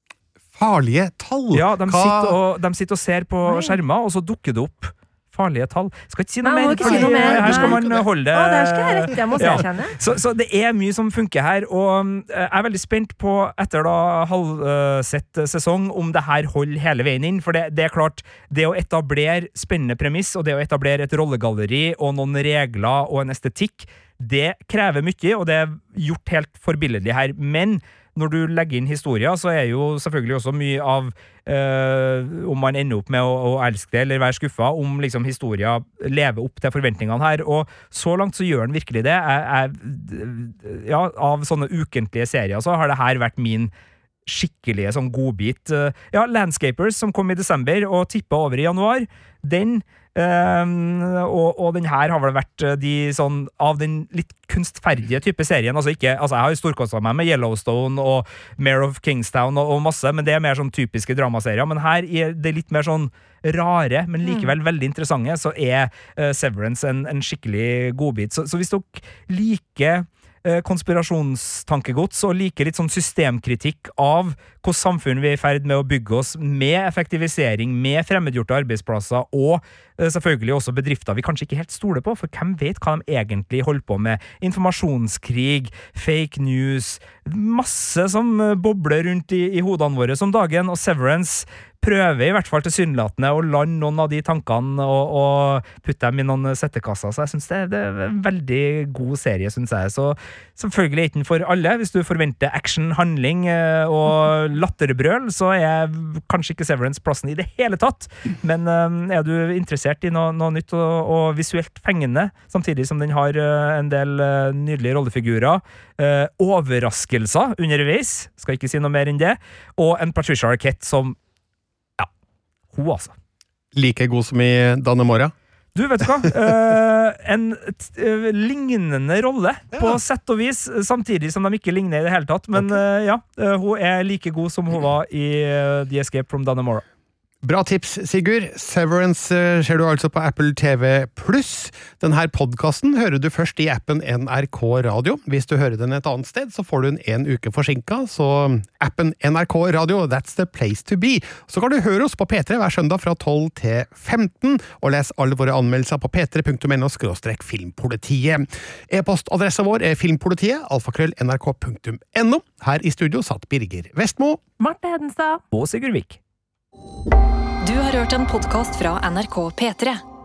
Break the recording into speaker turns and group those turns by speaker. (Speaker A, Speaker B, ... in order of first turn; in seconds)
Speaker A: 0.5-2.3, 6.8-8.1, 123.7-125.3, 129.7-130.0, 137.4-164.4
Speaker B: 1.5-43.7, 44.2-121.2, 122.7-123.1, 125.7-136.8, 165.5-166.2
Speaker C: 3.5-3.8, 6.4-7.8, 8.3-9.9, 64.2-64.5, 164.6-165.4
Speaker D: 167.6-170.0